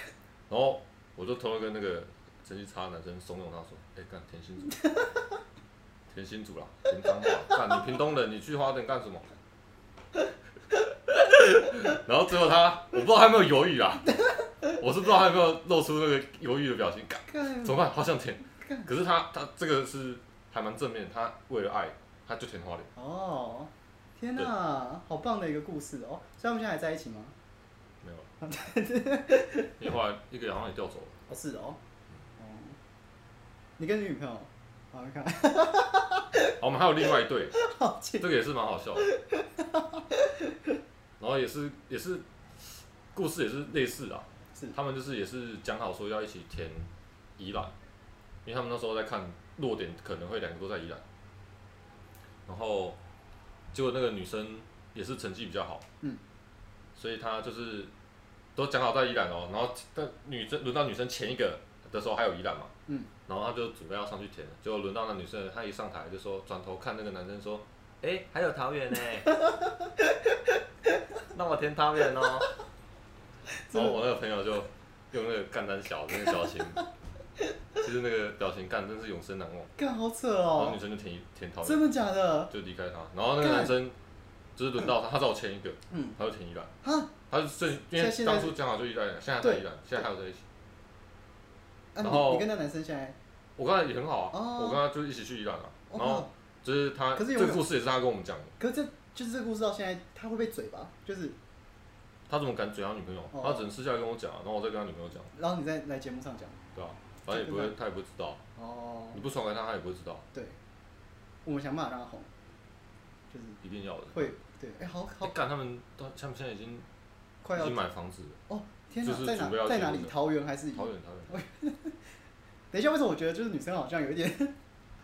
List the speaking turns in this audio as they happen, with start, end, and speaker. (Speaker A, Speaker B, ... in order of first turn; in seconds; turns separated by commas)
Speaker A: 0.5-4.8, Speaker B: 4.8-5.1, Speaker A: 6.1-9.2, Speaker A: 11.1-14.2, Speaker A: 14.7-22.9, Speaker B: 17.3-17.9, Speaker B: 18.5-18.9, Speaker B: 22.9-27.3, Speaker A: 28.0-28.3, Speaker B: 28.4-29.7, Speaker A: 29.8-31.2, Speaker B: 31.3-31.8, Speaker B: 32.4-32.8, Speaker B: 33.8-36.4, Speaker A: 36.6-37.6, Speaker B: 37.6-38.2, Speaker A: 38.2-39.1, Speaker B: 39.1-40.5, Speaker A: 41.2-47.7, Speaker A: 48.4-51.0, Speaker A: 52.5-53.0, Speaker A: 53.7-55.8, Speaker A: 56.9-57.9, Speaker A: 58.5-62.7, Speaker A: 63.3-69.4, Speaker A: 71.3-72.5, Speaker B: 73.5-74.0, Speaker A: 73.7-76.8, Speaker B: 76.3-76.8, Speaker A: 77.8-79.7, Speaker B: 79.8-80.8, Speaker A: 80.5-81.8, Speaker B: 81.6-82.5, Speaker A: 82.5-84.0, Speaker B: 83.4-83.7, Speaker A: 84.6-86.7, Speaker B: 85.9-86.2, Speaker B: 86.8-87.1, Speaker A: 87.3-90.4, Speaker B: 87.9-88.5, Speaker B: 89.4-90.0, Speaker B: 91.9-93.2, Speaker A: 92.0-92.5, Speaker A: 93.6-98.5, Speaker B: 94.3-94.8, Speaker B: 95.9-96.3, Speaker B: 97.2-97.6, Speaker B: 98.6-101.4, Speaker A: 102.3-105.3, Speaker B: 103.3-103.7, Speaker B: 105.3-106.6, Speaker A: 106.7-108.4, Speaker B: 107.3-107.8, Speaker B: 108.5-109.2, Speaker A: 109.1-110.2, Speaker B: 111.4-112.3, Speaker B: 113.3-113.6, Speaker A: 113.6-114.3, Speaker B: 114.1-115.3, Speaker A: 115.2-116.8, Speaker B: 117.4-117.8, Speaker A: 117.5-118.4, Speaker B: 118.5-122.0, Speaker A: 119.0-120.2, Speaker A: 120.7-121.4, Speaker B: 122.7-124.5